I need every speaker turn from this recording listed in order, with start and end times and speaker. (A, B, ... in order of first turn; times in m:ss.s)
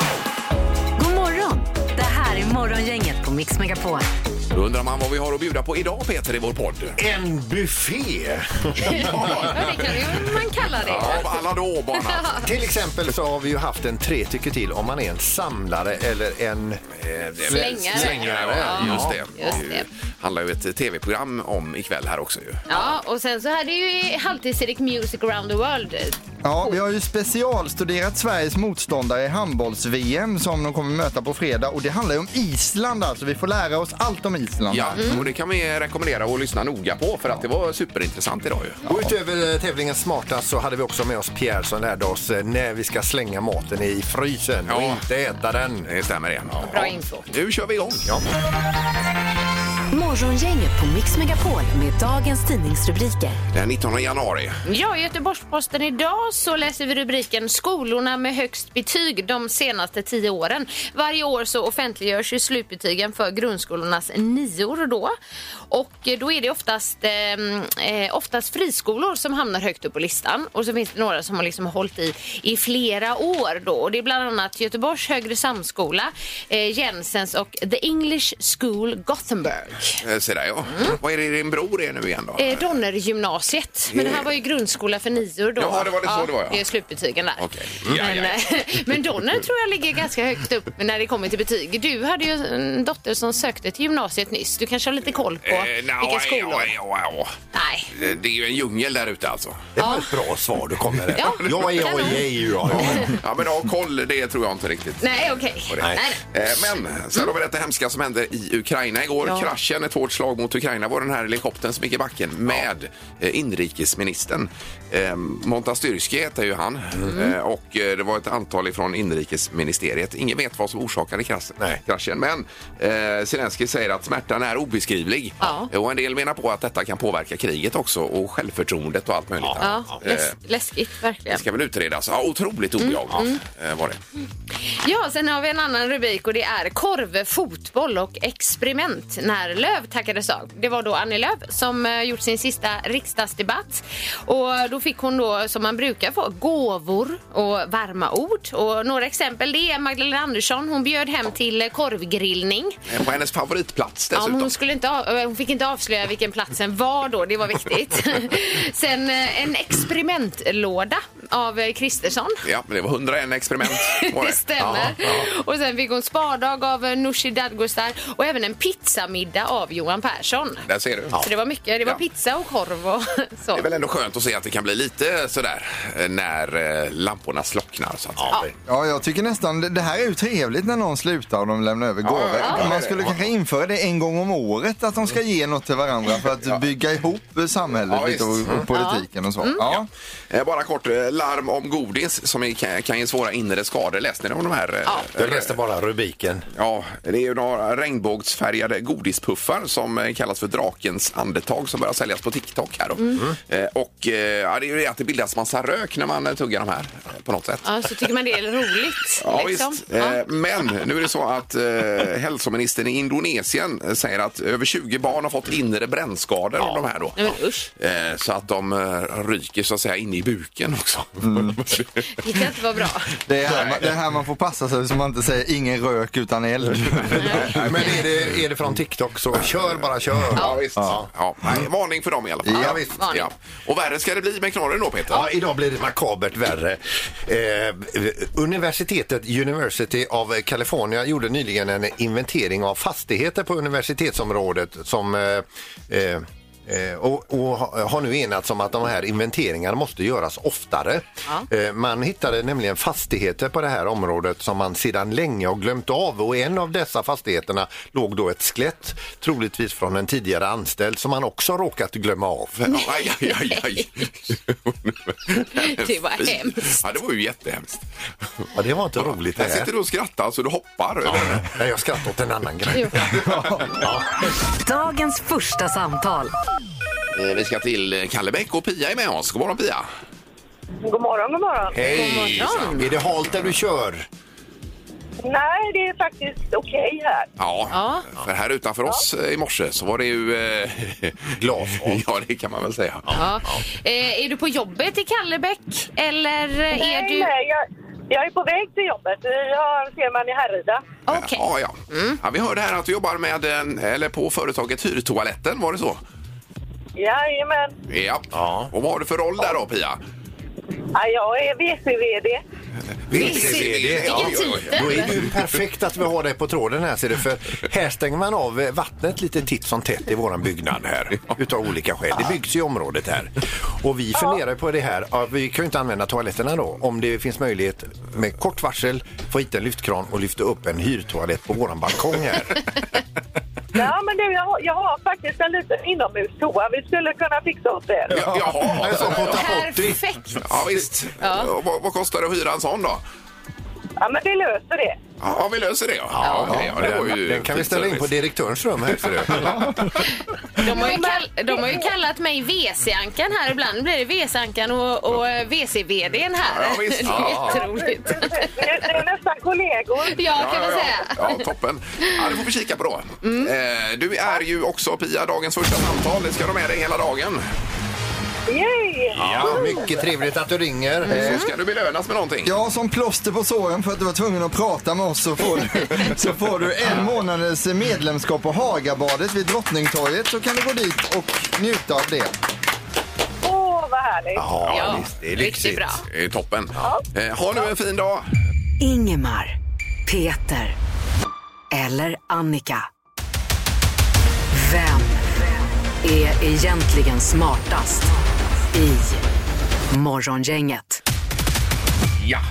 0:01.0-0:04.1 A
0:04.5-0:07.0 B
0:07.0-0:09.4 C
0:08.8-0:11.4 D
0:08.8-0:10.2 B
0:10.8-0:12.4 B
0:12.0-0:12.4 D
0:12.4-0:16.8 C
0:17.0-0:22.8 B
0:17.4-0:19.2 C
0:17.5-0:19.9 D
0:22.7-0:26.7 D
0:26.4-0:35.2 E
0:34.7-0:38.9 B
0:38.8-0:45.9 C
0:44.7-0:45.0 B
0:45.8-0:48.1 B
0:46.7-0:47.3 D
0:49.9-0:53.4 A
0:53.5-0:54.6 B
0:54.6-1:05.2 D
1:05.7-1:20.0 D
1:20.0-1:22.6 B
1:22.4-1:36.7 D
1:23.9-1:24.3 B
1:25.6-1:26.6 B
1:27.4-1:28.4 B
1:35.4-1:37.4 B
1:37.5-1:37.9 D
1:37.9-1:39.7 B
1:39.8-1:43.2 C
1:39.8-1:40.2 D
1:41.1-1:42.1 B
1:41.2-1:43.1 D
1:42.8-2:10.3 B
1:45.0-1:46.3 D
2:05.4-2:05.7 D
2:09.4-2:09.8 C
2:09.6-2:11.4 D
2:11.3-2:14.0 B
2:12.8-2:13.4 D
2:14.6-2:32.8 D
2:32.9-2:34.5 B
2:34.1-2:42.4 D
2:42.4-2:44.4 B
2:43.7-2:50.6 D
2:44.6-2:45.3 C
2:50.7-2:51.2 B
2:51.2-2:53.7 D
2:53.5-2:58.3 B
2:58.2-2:58.5 C
2:58.7-3:09.9 E
3:02.0-3:03.3 B
3:07.9-3:08.5 B
3:08.7-3:09.6 D
3:09.6-3:15.5 B
3:15.2-3:16.4 C
3:16.6-3:27.9 B
3:27.6-3:30.2 D
3:29.2-3:42.1 B
3:36.6-3:36.8 C
3:37.2-3:37.7 D
3:41.2-3:41.6 E
3:42.2-3:43.1 D
3:43.2-3:47.5 E
3:47.0-3:48.1 B
3:47.2-3:47.6 D
3:47.5-3:51.1 C
3:50.3-3:55.3 B
3:50.4-3:50.6 D
3:52.5-3:52.9 C
3:52.6-3:53.3 D
3:55.1-4:22.6 C
4:22.6-4:27.8 B
4:22.7-4:24.0 D
4:25.6-4:26.8 D
4:28.5-4:29.7 C
4:29.0-4:31.5 B
4:31.1-4:34.4 C
4:32.7-4:33.3 D
4:34.5-4:36.3 A
4:37.2-4:39.9 B
4:40.8-4:41.8 F
4:41.7-4:44.1 C
4:41.8-4:42.9 B
4:41.9-4:42.9 D
4:45.2-4:47.3 F
4:47.4-4:53.1 B
4:47.7-4:48.1 D
4:51.3-4:52.0 C
4:53.1-4:53.6 C
4:53.1-4:57.3 D
4:56.7-5:00.8 F
5:01.1-5:02.2 D
5:01.1-5:06.0 B
5:07.0-5:07.8 F
5:07.9-5:10.0 B
5:08.3-5:08.7 C
5:10.9-5:12.4 F
5:13.1-5:32.6 C
5:13.1-5:15.4 B
5:13.2-5:15.1 D
5:33.7-5:38.2 F
5:38.1-5:39.5 B
5:38.1-5:40.0 C
5:39.2-5:40.5 D
5:40.4-5:43.0 B
5:41.2-5:41.5 D
5:44.0-5:45.0 F
5:45.2-5:48.2 B
5:46.1-5:49.9 C
5:46.2-5:46.7 D
5:48.9-5:49.9 B
5:50.0-5:58.9 D
5:50.6-5:51.9 F
5:56.5-5:57.6 B
5:57.1-5:57.6 C
5:57.3-6:00.2 F
6:00.1-6:01.4 D
6:00.4-6:07.4 B
6:03.2-6:03.5 D
6:08.5-6:09.9 F
6:09.1-6:11.4 C
6:09.2-6:09.7 B
6:11.0-6:11.5 D
6:11.1-6:12.5 B
6:12.4-6:22.3 E
6:23.4-6:24.5 F
6:24.4-6:26.0 C
6:24.7-6:26.0 D
6:26.1-6:28.3 B
6:28.8-6:30.8 A
6:31.7-6:32.9 A
6:34.5-6:35.2 A
6:36.0-6:38.1 A
6:38.7-6:39.2 A
6:39.9-6:41.0 A